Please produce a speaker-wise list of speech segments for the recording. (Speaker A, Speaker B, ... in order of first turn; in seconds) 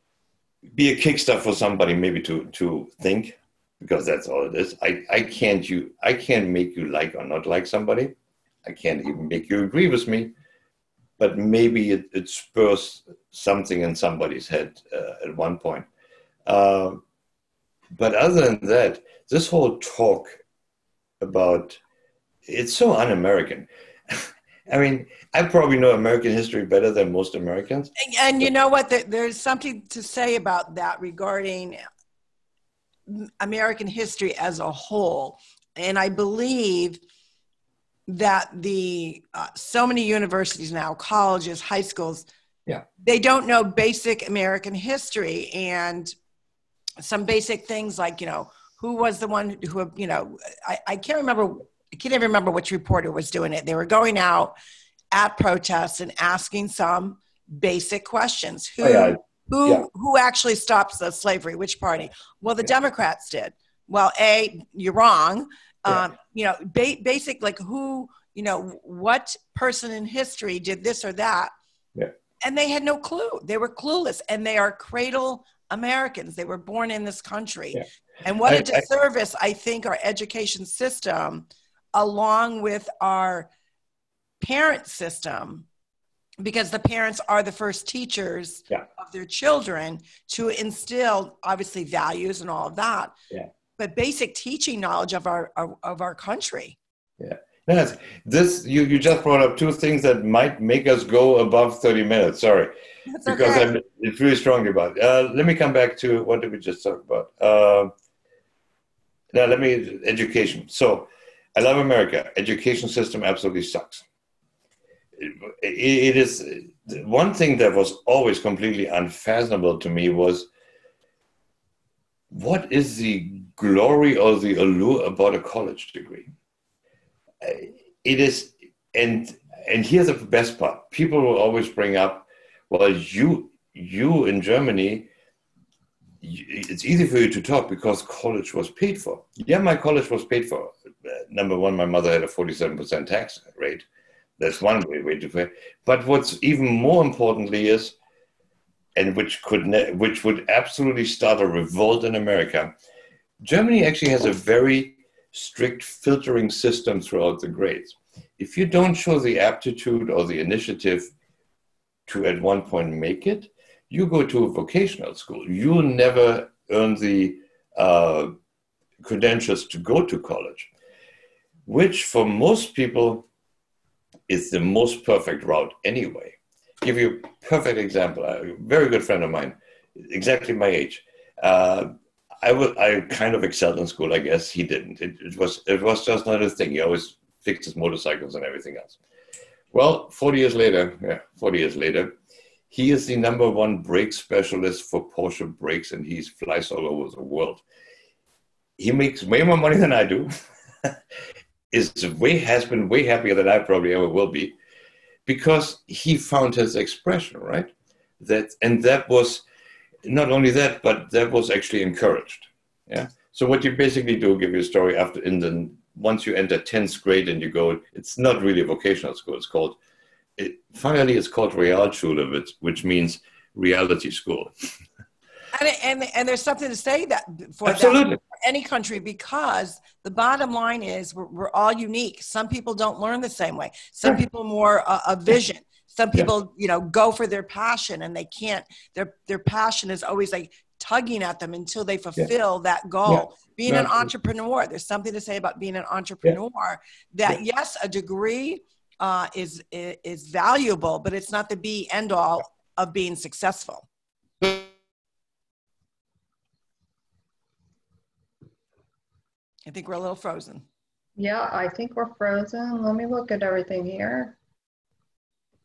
Speaker A: 0.8-10.3, 11.2-15.9, 16.5-17.0, 17.9-20.4, 21.2-21.8, 22.5-28.5, 58.8-59.9, 78.5-78.8, 97.2-102.7, 103.2-107.9, 109.3-114.0, 115.2-120.5, 122.3-126.3, 127.4-135.1, 136.2-143.9, 144.4-147.9, 149.0-152.7, 153.4-161.1, 162.1-168.3, 169.0-170.7, 171.7-173.3, 174.3-181.9, 182.4-189.0, 189.7-192.1, 192.7-197.6, 198.8-200.3, 201.7-204.6, 205.3-209.4, 210.1-219.8, 220.4-224.5, 227.7-228.2, 243.1-244.1
Speaker B: 28.0-31.8, 33.1-37.0, 38.1-42.3, 43.0-46.1, 47.0-54.5, 55.1-71.5, 72.4-83.5, 84.4-85.7, 86.4-93.1, 93.8-96.8, 103.1-103.7, 225.5-253.9, 259.7-260.6
Speaker C: 261.2-264.4